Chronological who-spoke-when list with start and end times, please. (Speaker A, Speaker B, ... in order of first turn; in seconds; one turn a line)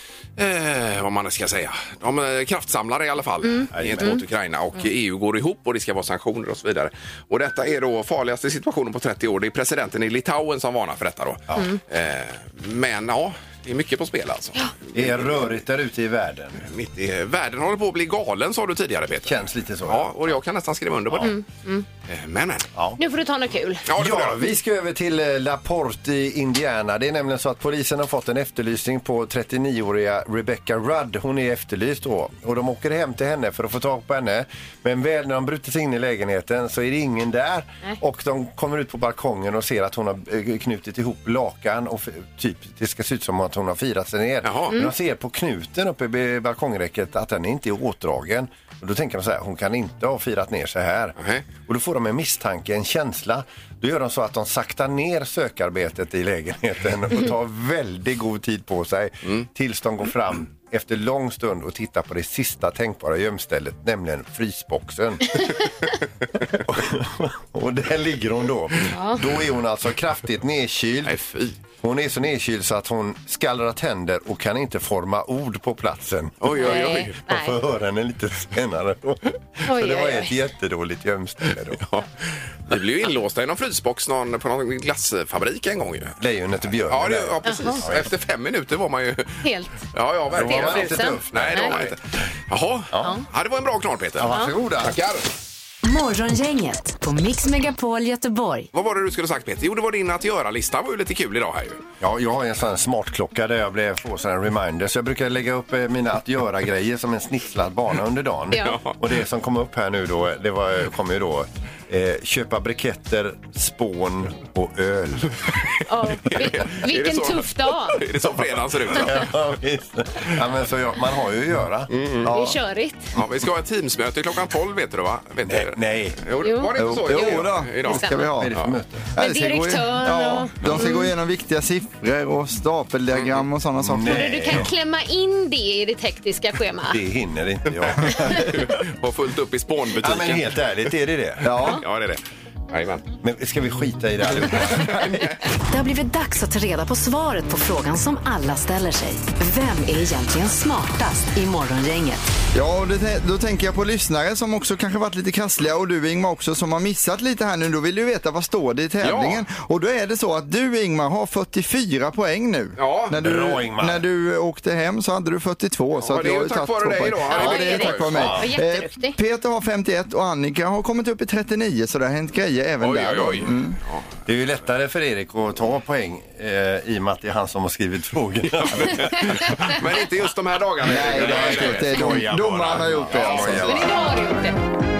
Speaker A: 0.4-15.3
Speaker B: 3.4-4.2
Speaker C: 3.7-4.2
Speaker C: 14.9-16.6
Speaker A: 16.6-21.4
Speaker C: 19.2-20.2
Speaker B: 21.2-21.9
Speaker A: 22.1-22.7
Speaker C: 22.8-23.0
Speaker B: 23.0-23.9
Speaker A: 23.9-24.5
Speaker C: 23.9-65.4
Speaker A: 44.4-44.8
Speaker A: 51.2-51.5
Speaker C: 66.6-71.2
Speaker B: 68.9-69.2
Speaker A: 71.0-71.6
Speaker C: 71.8-81.8
Speaker A: 76.4-77.2
Speaker B: 76.5-77.5
Speaker B: 79.6-80.3
Speaker A: 81.8-82.1
Speaker A: 82.7-86.2
Speaker C: 86.2-88.1
Speaker A: 86.9-95.2
Speaker B: 87.5-87.8
Speaker B: 89.4-89.8
Speaker C: 90.3-92.0
Speaker B: 90.4-91.7
Speaker C: 94.2-95.0
Speaker D: 95.8-98.7
Speaker A: 98.7-101.8
Speaker C: 102.0-115.4
Speaker B: 108.5-108.8
Speaker A: 108.6-109.0
Speaker B: 115.9-118.0
Speaker A: 116.2-119.3
Speaker C: 118.8-121.9
Speaker A: 121.9-122.3
Speaker E: 122.2-122.6
Speaker B: 122.3-123.1
Speaker A: 123.2-128.7
Speaker C: 125.5-126.2
Speaker B: 126.4-128.3
Speaker E: 126.8-128.5
Speaker C: 128.4-129.1
Speaker E: 129.2-134.7
Speaker B: 129.2-131.1
Speaker A: 133.1-133.4
Speaker C: 133.8-134.7
Speaker B: 134.1-137.0
Speaker C: 136.8-138.8
Speaker A: 137.8-140.8
Speaker C: 140.0-141.5
Speaker E: 141.4-141.8
Speaker A: 141.6-143.0
Speaker C: 143.2-145.2
Speaker A: 144.5-145.3
Speaker D: 145.7-152.2
Speaker E: 152.5-173.8
Speaker A: 159.0-159.4
Speaker A: 162.8-163.2
Speaker C: 163.2-164.0
Speaker A: 166.0-168.3
Speaker B: 167.3-169.2
Speaker C: 168.2-168.5
Speaker A: 172.8-174.1
Speaker C: 174.2-179.5
Speaker A: 178.6-182.1
Speaker E: 180.8-183.9
Speaker C: 181.0-184.0
Speaker A: 183.2-183.6
Speaker B: 183.6-184.6